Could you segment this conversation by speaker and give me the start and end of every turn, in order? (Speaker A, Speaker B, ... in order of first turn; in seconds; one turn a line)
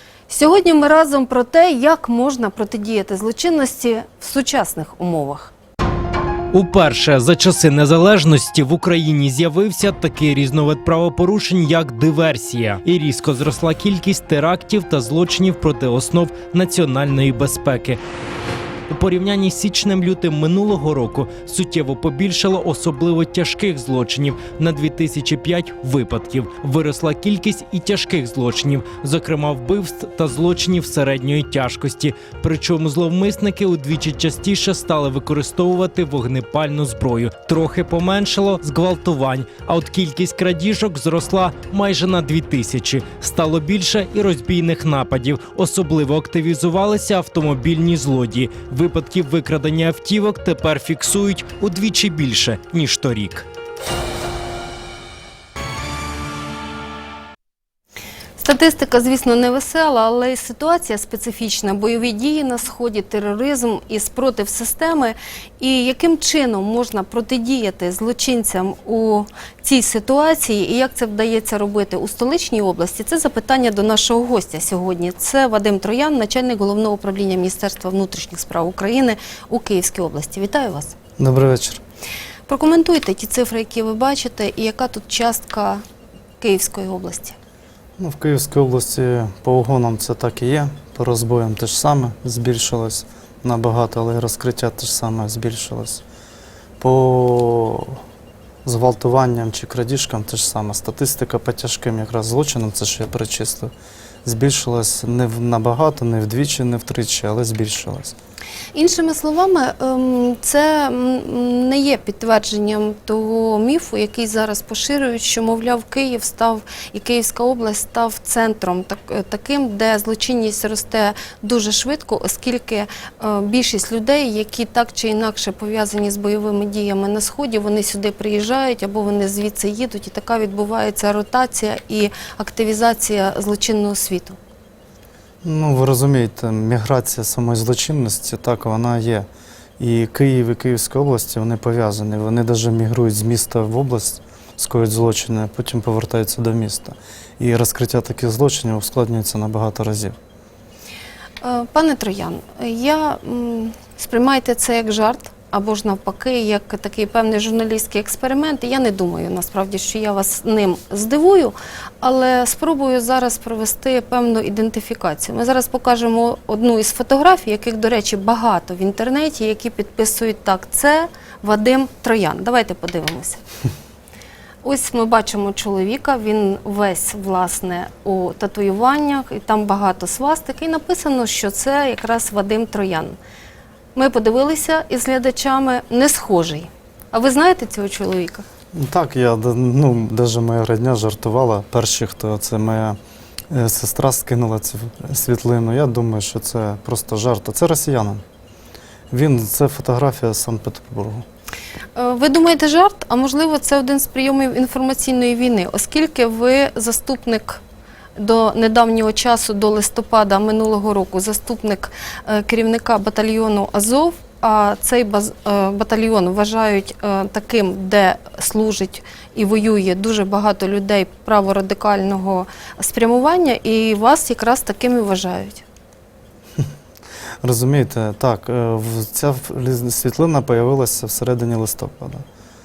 Speaker A: 0.3-5.5
Speaker B: 6.5-18.0
Speaker B: 18.9-53.5
Speaker A: 58.4-81.0
Speaker C: 81.2-81.8
Speaker A: 82.5-85.8
Speaker A: 86.4-87.3
Speaker C: 88.0-96.0
Speaker C: 96.8-98.0
Speaker C: 98.6-103.7
Speaker C: 104.2-108.2
Speaker A: 108.7-134.4
Speaker C: 135.4-139.3
Speaker C: 139.8-150.2
Speaker A: 151.4-173.4
Speaker A: 174.6-183.2
Speaker A: 183.9-188.4
Speaker C: 188.7-193.0
Speaker C: 193.5-198.2
Speaker C: 199.1-201.2
Speaker A: 201.9-207.6
Speaker A: 208.2-225.6
Speaker C: 227.4-232.2